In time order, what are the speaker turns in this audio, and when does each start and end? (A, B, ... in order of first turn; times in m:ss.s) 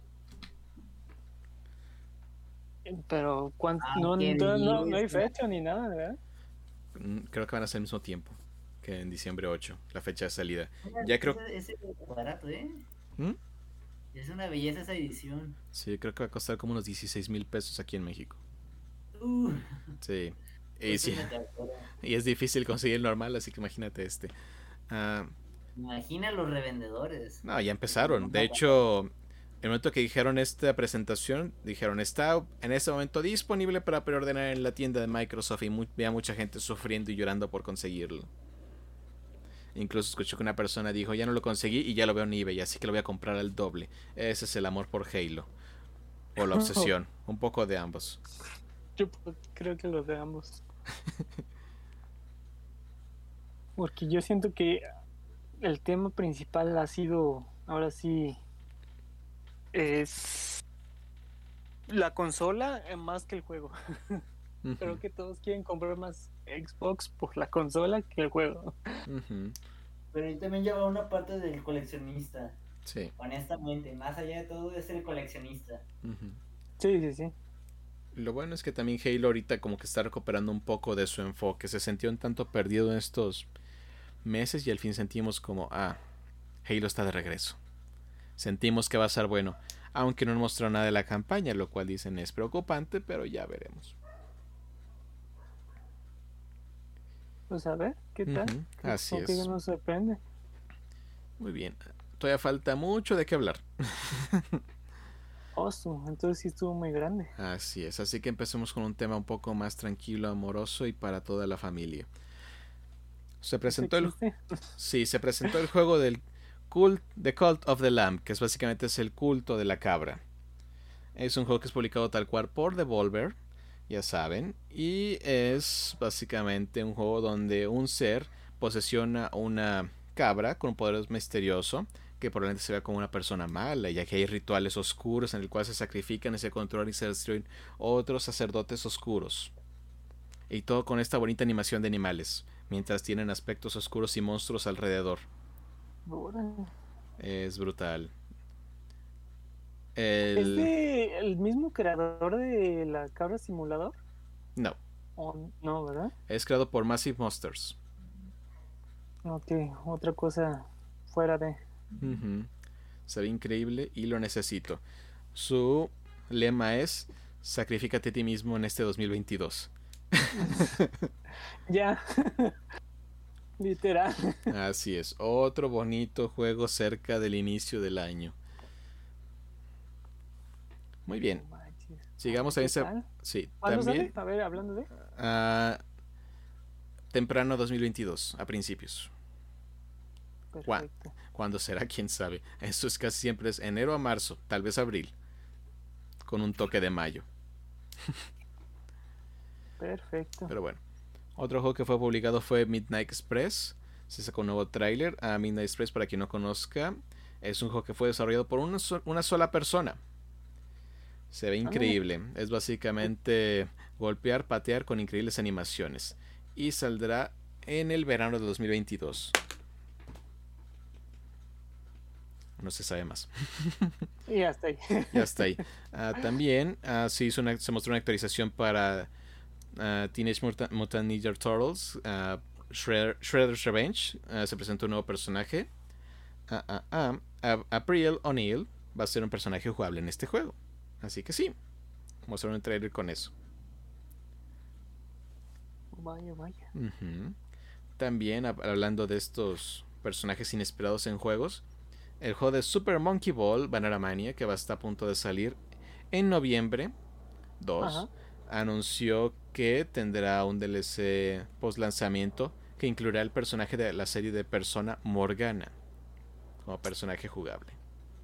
0:02.8-0:06.2 A
0:03.8-0:05.3 B
0:07.0-0:11.4 C
0:10.8-0:12.8 B
0:14.1-0:15.6 B
0:15.7-0:18.4 C
0:19.2-0:19.8 B
0:20.0-0:21.3 C
0:20.9-0:21.9 B
0:22.0-0:24.3 C
0:24.9-0:25.3 C
0:25.8-0:28.7 B
0:27.4-0:29.1 C
0:29.6-0:38.3 C
0:39.7-0:45.5 C
0:46.4-0:48.2 C
0:46.5-0:46.9 A
0:49.0-0:50.6 A
0:53.8-0:54.8 A
0:55.6-0:58.4 A
0:59.7-1:00.6 A
1:01.9-1:04.2 A
1:04.6-1:05.0 C
1:04.8-1:09.1 A
1:09.1-1:09.6 C
1:10.1-1:12.6 B
1:12.9-1:13.1 C
1:13.2-1:15.8 B
1:16.0-1:16.4 C
1:16.8-1:17.3 A
1:18.2-1:23.5 C
1:24.2-1:26.0 C
1:26.6-1:27.6 C
1:28.4-1:34.0 C
1:37.5-1:40.2 A
1:38.3-1:39.5 C
1:41.4-1:44.6 C
1:45.6-1:47.3 A
1:47.4-1:52.1 C
1:53.4-1:54.2 C
1:53.7-1:54.5 A
1:54.8-2:00.2 C
2:01.2-2:03.4 C
2:03.9-2:19.5 C
2:20.5-2:25.3 C
2:26.0-2:26.7 A
2:27.2-2:28.1 C
2:30.0-2:30.7 C
2:30.4-2:34.0 A
2:35.2-2:36.1 A
2:36.3-2:37.8 C
2:39.2-2:41.6 A
2:42.0-2:42.5 C
2:43.1-2:44.8 C
2:45.3-2:51.1 C
2:50.3-2:50.7 A
2:51.7-2:52.6 A
2:53.6-2:54.5 A
2:54.5-2:58.4 C
3:01.1-3:01.4 C
3:01.4-3:03.1 A
3:02.2-3:04.1 C
3:03.6-3:04.9 A
3:05.0-3:05.8 C
3:07.1-3:09.1 C
3:10.5-3:11.1 A
3:10.7-3:15.1 C
3:16.2-3:17.3 C
3:19.8-3:20.5 A
3:20.5-3:20.8 C
3:21.4-3:30.0 C
3:31.3-3:39.4 C
3:31.6-3:32.0 A
3:42.6-3:44.0 C
3:44.3-3:45.6 A
3:45.1-3:49.1 C
3:49.7-3:55.7 C
3:56.5-4:01.6 C
4:02.3-4:03.3 C
4:05.9-4:06.7 A
4:06.7-4:07.4 C
4:08.0-4:11.6 C
4:12.2-4:15.6 C
4:16.1-4:16.9 C
4:17.6-4:25.8 C
4:17.8-4:18.1 A
4:26.6-4:27.8 C